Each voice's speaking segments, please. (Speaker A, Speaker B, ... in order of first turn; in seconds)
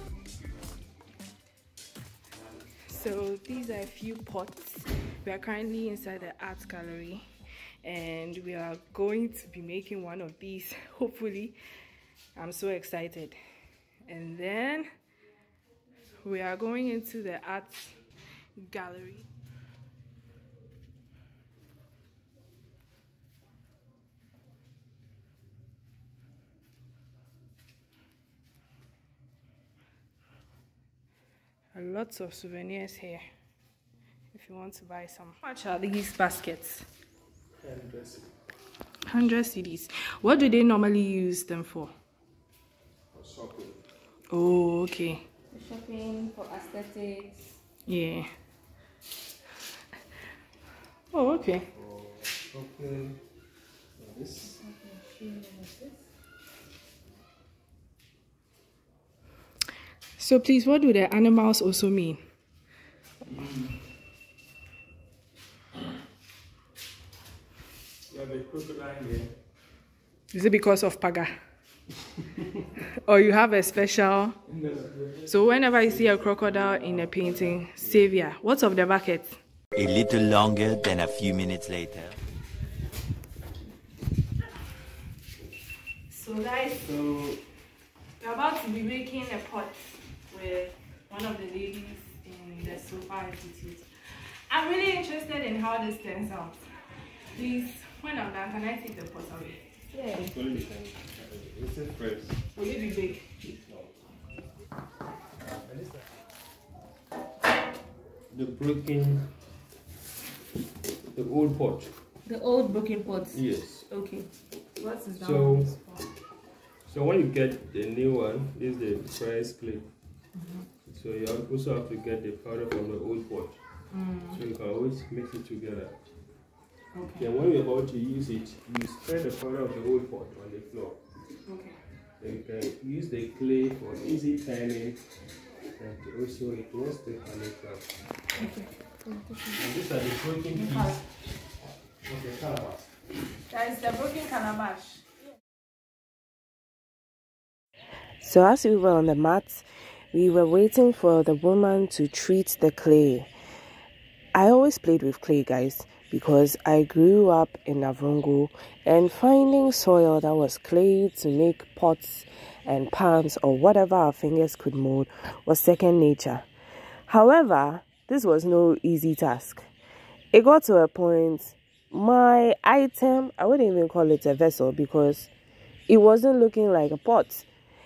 Speaker A: 2.9-7.2, 7.8-11.6, 12.4-13.4, 14.1-14.9, 16.2-18.0, 18.6-19.3, 31.7-33.2, 34.3-36.9, 39.1-41.9, 44.3-45.2, 47.9-48.3, 51.1-51.7, 60.2-62.2, 70.3-71.3, 73.0-74.4, 75.3-79.4, 86.1-86.8, 88.2-96.6, 97.3-100.3, 102.5-103.3, 114.8-116.1, 123.9-124.4, 126.9-127.3, 131.4-131.8, 138.4-138.7, 140.6-140.9, 143.5-145.0
Speaker B: 37.6-38.3, 43.1-43.8, 51.7-53.2, 54.0-54.6, 63.2-63.9, 68.1-69.3, 74.5-78.1, 86.8-87.4, 100.1-102.4, 103.5-104.0, 105.7-106.1, 108.3-109.3, 111.1-112.0, 113.3-114.0, 115.2-115.8, 116.9-119.9, 120.9-123.6, 124.3-126.0, 127.1-131.0, 132.2-135.1, 135.8-137.9, 139.5-141.0, 142.0-142.9
Speaker C: 45.5-47.6, 54.6-55.9, 112.2-113.4, 113.9-114.2, 139.1-139.5
Speaker D: 79.8-82.2
Speaker E: 148.2-153.3, 154.3-166.5, 167.1-169.7, 170.3-175.3, 175.9-177.5